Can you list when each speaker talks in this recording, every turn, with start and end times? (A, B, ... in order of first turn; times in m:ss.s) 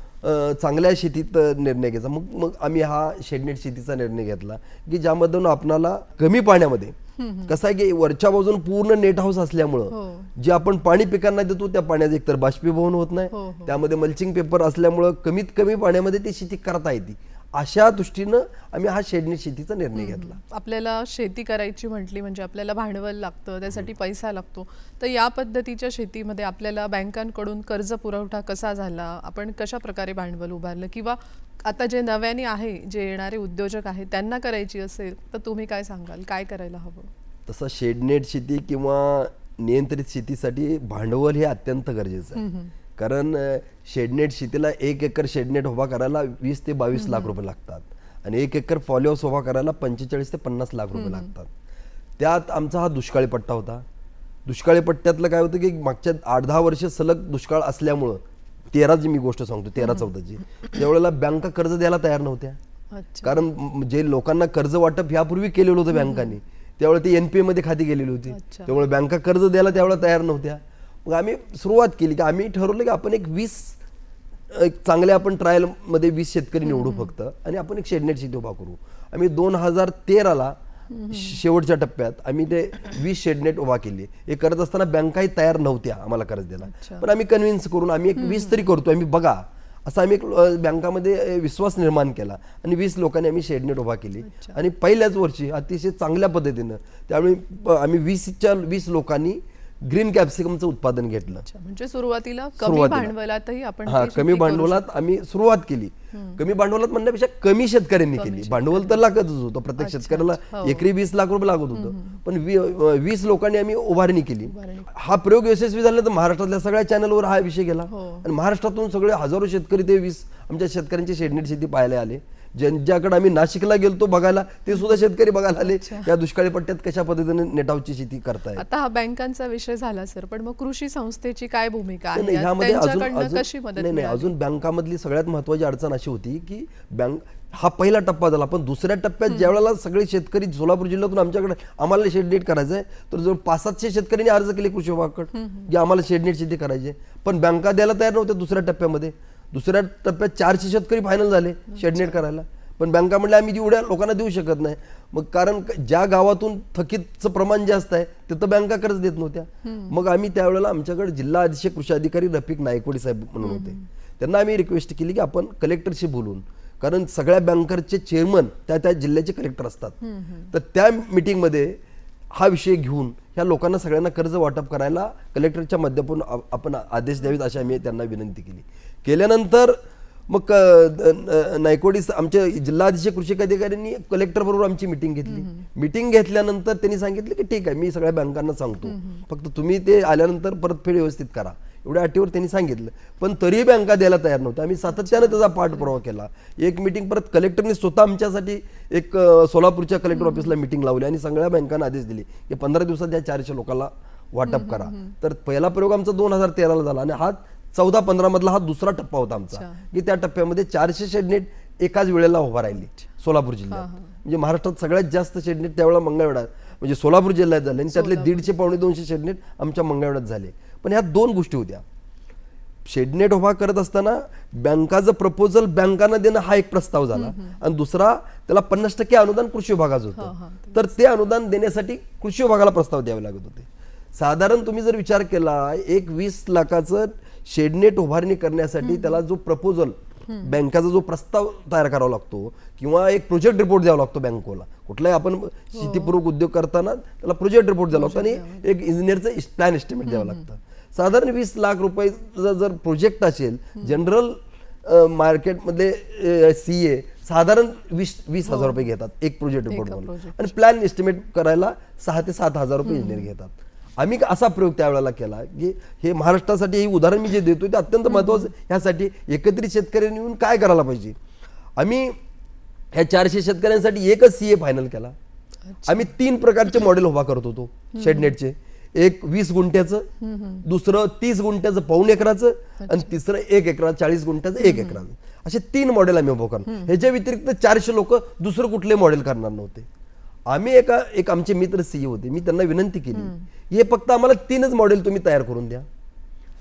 0:00.2-0:20.4 A
0:07.2-0:07.5 B
0:09.9-0:10.3 B
0:13.3-0:13.8 B
0:20.0-0:37.1 B
0:37.5-0:42.4 A
0:42.3-0:42.7 B
0:43.0-0:51.5 A
0:46.9-0:47.3 B
0:50.9-0:51.3 B
0:52.2-0:53.8 A
0:54.4-1:02.6 A
1:02.9-1:03.4 B
1:03.2-1:13.8 A
1:05.9-1:06.3 B
1:08.3-1:08.7 B
1:14.5-1:20.6 A
1:16.6-1:17.1 B
1:20.9-1:21.4 B
1:21.1-1:41.4 A
1:26.6-1:27.1 B
1:28.2-1:28.6 B
1:34.2-1:34.6 B
1:41.4-1:44.8 B
1:42.6-1:43.1 A
1:43.8-2:08.6 A
1:46.1-1:46.4 B
1:48.1-1:49.0 B
1:49.8-1:50.8 B
1:51.7-1:52.2 B
1:54.5-1:54.9 B
1:57.9-1:58.3 B
2:05.6-2:06.1 B
2:08.6-2:14.3 B
2:12.1-2:50.0 A
2:25.3-2:25.7 B
2:31.7-2:32.2 B
2:39.6-2:39.9 B
2:43.4-2:43.8 B
2:50.0-2:50.5 B
2:50.5-2:51.8 A
2:52.3-2:59.8 A
3:00.3-3:41.8 A
3:05.2-3:05.7 B
3:08.8-3:09.2 B
3:14.9-3:15.9 B
3:20.1-3:20.5 B
3:24.4-3:25.1 B
3:29.5-3:29.8 B
3:33.7-3:34.2 B
3:37.9-3:38.5 B
3:42.8-4:31.2 A
3:47.1-3:47.6 B
3:50.1-3:50.8 B
3:58.8-3:59.2 B
4:00.3-4:00.6 B
4:05.7-4:06.1 B
4:07.9-4:08.6 B
4:10.1-4:10.4 B
4:18.5-4:18.8 B
4:19.7-4:20.5 B
4:22.8-4:23.2 B
4:28.1-4:28.5 B
4:31.8-4:32.2 A
4:32.9-4:35.2 A
4:35.6-4:36.1 B
4:35.8-4:40.1 A
4:37.9-4:38.3 B
4:40.2-4:40.6 B
4:40.6-4:49.9 A
4:42.8-4:43.1 B
4:44.6-4:45.0 B
4:46.6-4:46.9 B
4:50.5-4:55.8 A
4:53.1-4:53.5 B